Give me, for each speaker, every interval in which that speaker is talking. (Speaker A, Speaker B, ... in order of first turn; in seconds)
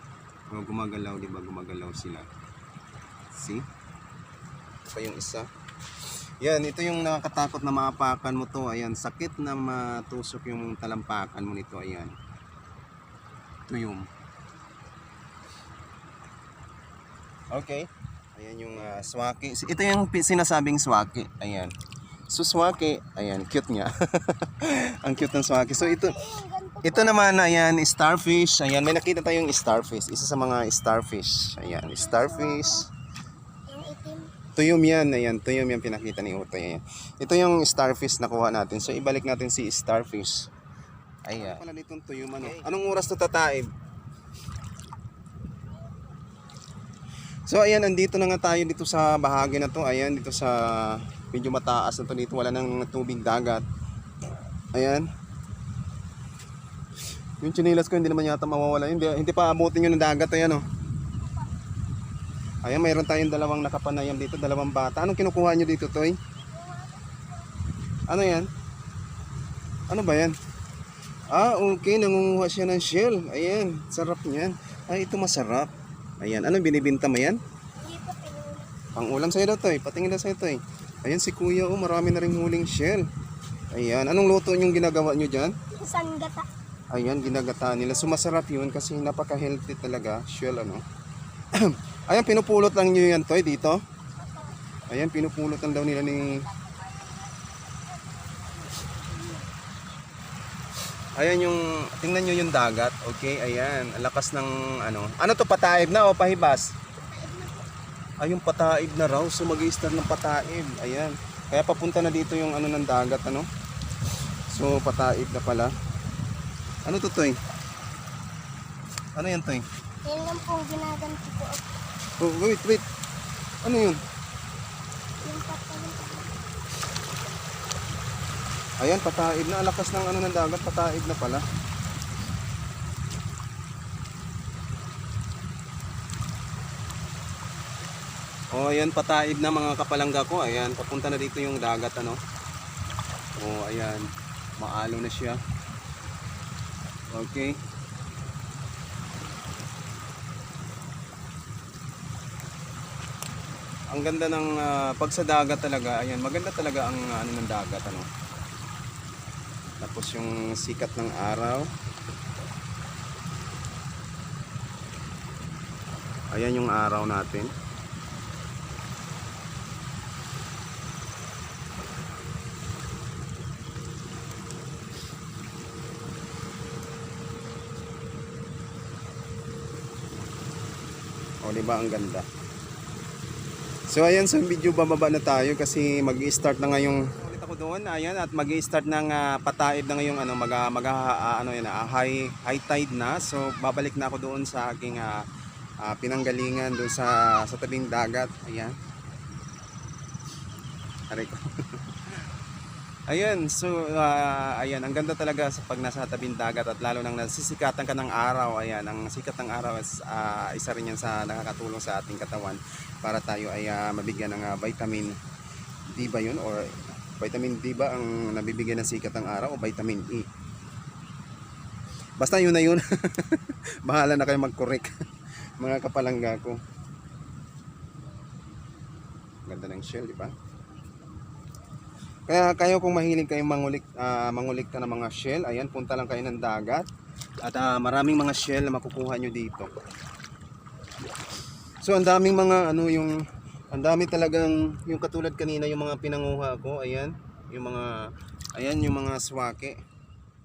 Speaker A: 0.5-2.3, 3.3-3.7, 4.9-5.5, 6.4-12.2, 13.7-14.1, 17.5-21.7, 22.3-26.3, 26.8-32.9, 34.5-40.5, 41.3-43.7, 47.5-53.6, 54.7-55.1, 57.4-60.6, 62.6-66.2, 68.1-68.5, 69.9-70.3, 71.3-75.7, 76.2-77.4, 79.0-83.1, 83.7-85.6, 86.9-90.8, 91.5-93.8, 94.9-96.5, 101.2-106.7, 108.2-113.5, 114.5-115.7, 116.9-117.4, 119.2-119.7, 122.2-122.8, 123.6-124.0, 128.8-131.4, 138.5-142.2, 143.4-145.4, 147.1-147.6, 153.9-158.1, 159.8-161.7, 166.3-167.5, 181.4-182.3, 183.9-195.2, 195.8-198.8, 201.1-202.2, 203.1-215.2, 215.9-220.3, 222.2-225.0, 225.6-226.6, 229.5-230.3, 232.3-236.9, 237.4-239.7, 241.8-249.8
Speaker B: 25.7-27.2, 31.7-32.9, 33.7-34.3, 66.5-67.3, 77.8-78.7, 85.7-86.5, 96.2-99.5, 107.1-107.6, 120.0-121.7, 125.2-126.3